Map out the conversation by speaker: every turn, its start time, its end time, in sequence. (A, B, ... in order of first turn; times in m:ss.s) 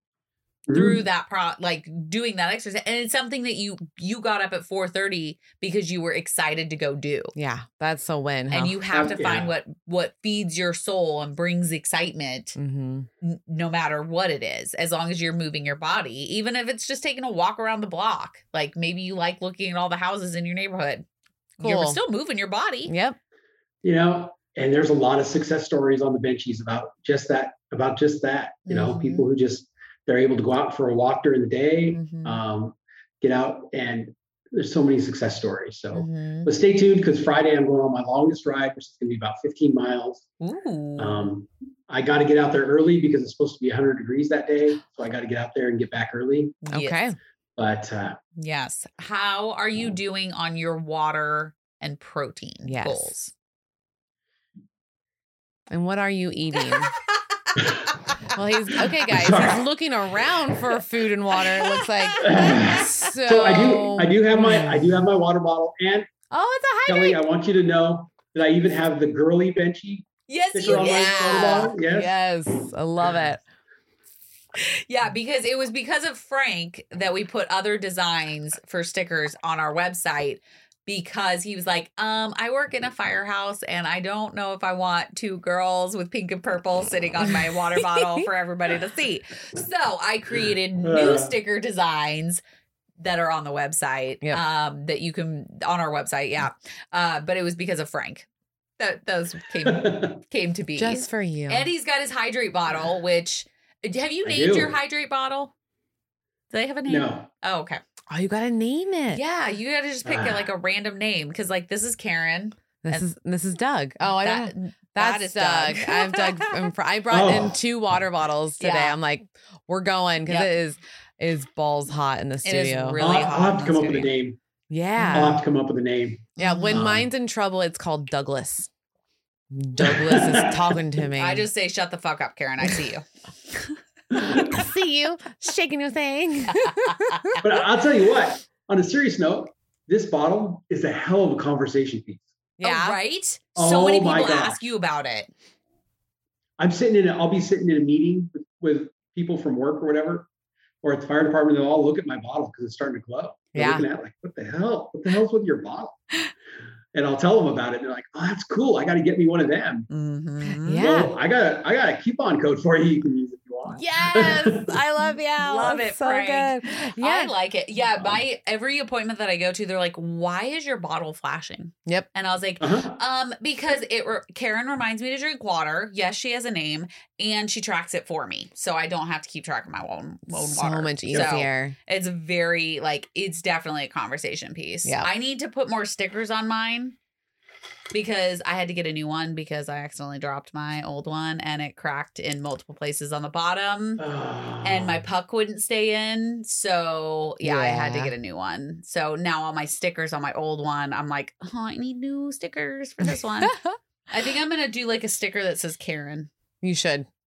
0:00.7-0:07.3 A
0:00.7-0:01.0 B
0:07.4-0:08.8 C
0:08.5-0:12.6 A
0:08.9-0:09.5 B
0:12.6-0:13.1 C
0:13.2-0:21.0 A
0:21.6-0:22.9 A
0:21.6-0:22.0 C
0:22.9-0:23.2 C
0:23.8-0:40.3 B
0:28.7-0:29.2 A
0:31.9-0:32.4 A
0:35.9-0:36.5 A
0:40.4-0:41.3 A
0:41.0-0:46.6 B
0:46.6-0:47.0 A
0:46.7-0:47.2 C
0:47.6-0:48.2 B
0:48.4-0:53.3 A
0:52.6-0:53.1 C
0:55.7-0:56.9 C
0:56.8-0:57.1 A
0:58.3-1:05.0 C
0:59.1-0:59.6 B
1:01.5-1:03.1 A
1:02.2-1:06.1 B
1:06.3-1:07.2 C
1:06.9-1:12.2 B
1:10.3-1:11.8 A
1:10.7-1:13.4 C
1:14.6-1:32.4 A
1:27.8-1:28.2 C
1:30.8-1:31.3 B
1:33.0-1:38.3 A
1:38.8-1:45.5 A
1:39.7-1:40.2 B
1:40.8-1:41.7 C
1:44.2-1:44.8 B
1:46.5-1:47.8 A
1:46.9-1:47.3 B
1:48.1-1:49.2 C
1:49.1-1:53.1 A
1:50.0-1:50.5 B
1:52.8-2:03.0 C
1:54.2-1:56.7 A
1:57.1-1:57.6 B
1:58.6-1:59.0 A
2:02.4-2:04.1 A
2:03.0-2:04.4 B
2:04.7-2:05.4 C
2:05.0-2:05.4 A
2:05.1-2:07.1 B
2:06.4-2:06.8 A
2:06.4-2:08.7 C
2:09.5-2:11.5 C
2:09.8-2:10.7 B
2:11.2-2:13.7 A
2:14.1-2:14.4 B
2:14.2-2:17.4 C
2:16.5-2:17.3 A
2:17.4-2:22.3 B
2:22.6-2:23.0 C
2:22.6-2:25.3 A
2:23.6-2:24.6 B
2:26.6-2:30.3 B
2:30.8-2:36.0 B
2:33.6-2:33.9 C
2:36.9-2:39.9 B
2:39.9-2:40.9 A
2:40.6-2:41.1 C
2:40.8-2:44.8 B
2:43.8-3:07.0 A
2:43.9-2:47.3 C
2:48.0-2:48.2 B
2:52.6-2:53.0 B
3:00.3-3:01.8 C
3:04.8-3:05.1 C
3:07.9-3:14.0 A
3:14.0-3:15.0 B
3:14.6-3:23.6 A
3:17.4-3:18.1 C
3:24.1-3:26.3 A
3:26.6-3:27.1 C